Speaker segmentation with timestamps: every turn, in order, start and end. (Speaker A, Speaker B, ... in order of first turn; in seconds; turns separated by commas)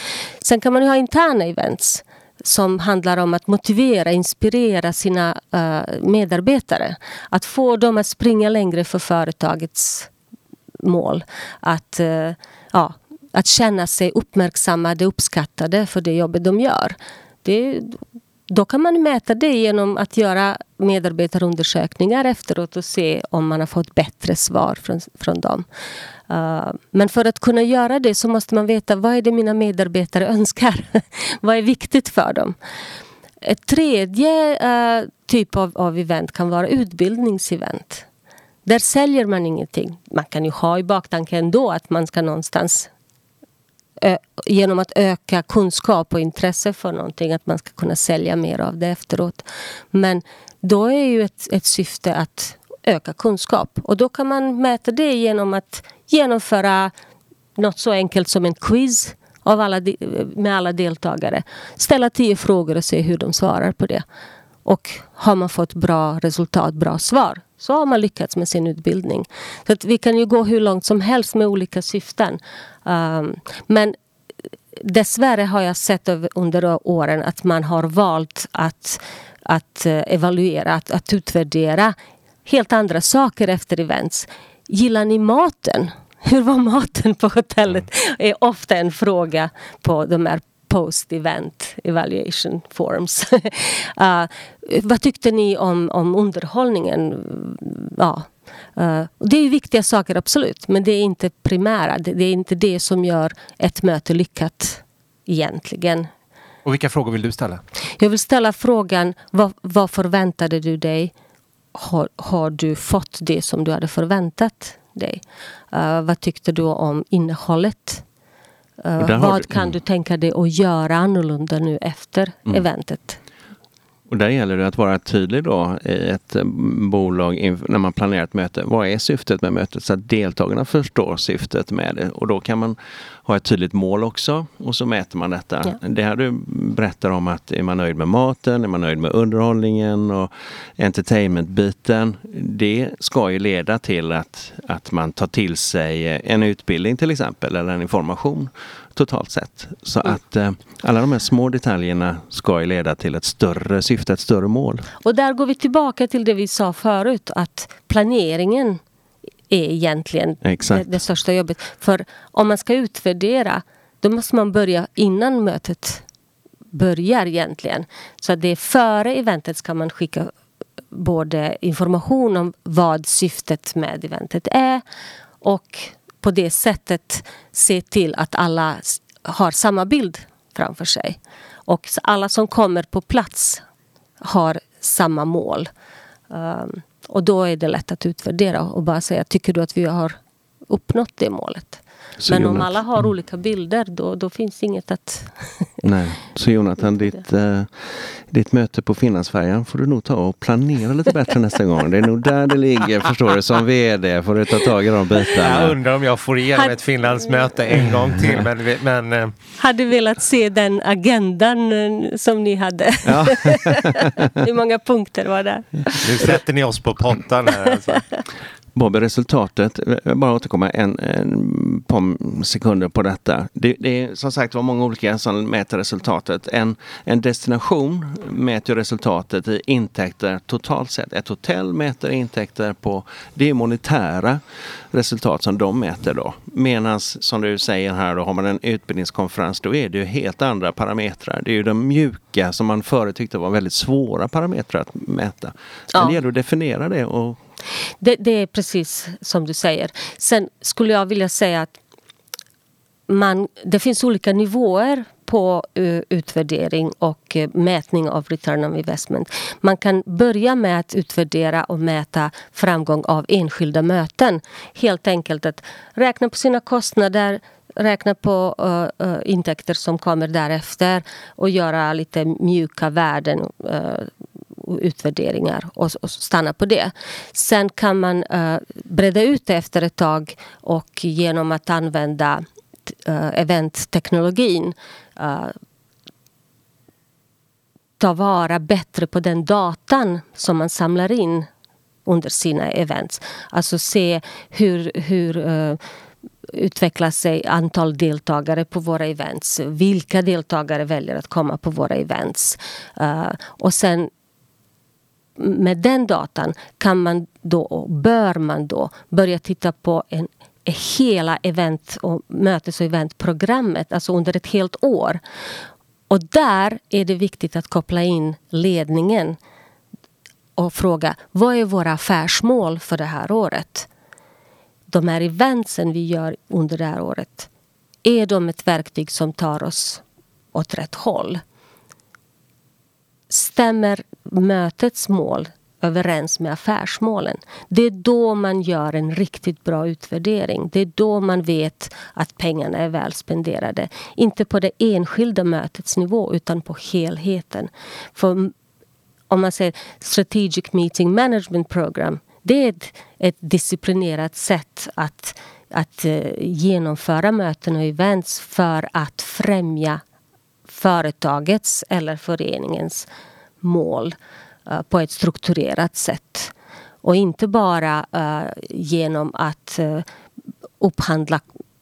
Speaker A: 0.4-10.1, Speaker A: 10.8-25.6, Speaker A: 26.3-32.5, Speaker A: 33.4-38.0, Speaker A: 38.6-42.9, Speaker A: 44.0-56.9, Speaker A: 57.5-64.0, Speaker A: 64.6-74.0, Speaker A: 74.8-106.1, Speaker B: 106.6-107.6, Speaker A: 108.0-111.1, Speaker A: 111.7-115.2, Speaker A: 115.7-118.0, Speaker A: 118.8-123.2, Speaker C: 119.0-119.7, Speaker C: 124.1-154.9, Speaker A: 155.0-158.8, Speaker A: 159.5-166.0, Speaker C: 160.4-160.9, Speaker A: 166.7-170.3, Speaker A: 170.9-174.8, Speaker A: 175.4-183.6, Speaker A: 184.2-185.7, Speaker A: 186.3-190.2, Speaker A: 190.7-195.7, Speaker C: 192.2-192.7, Speaker C: 195.8-205.7, Speaker B: 205.3-209.3, Speaker A: 209.6-216.3, Speaker C: 213.1-214.1, Speaker B: 216.0-218.1, Speaker C: 218.7-234.4, Speaker C: 234.9-247.4, Speaker A: 248.0-251.8, Speaker A: 253.1-285.6, Speaker A: 288.0-291.5, Speaker A: 292.1-295.8, Speaker A: 296.5-304.1, Speaker A: 305.4-315.2, Speaker A: 316.1-319.4, Speaker A: 320.6-323.9, Speaker A: 324.9-327.5, Speaker A: 328.0-330.0, Speaker A: 330.5-331.4, Speaker A: 333.3-348.5, Speaker A: 349.3-360.0, Speaker A: 360.7-363.1, Speaker A: 363.6-364.1, Speaker A: 364.7-366.5, Speaker A: 367.0-370.1, Speaker A: 370.8-371.4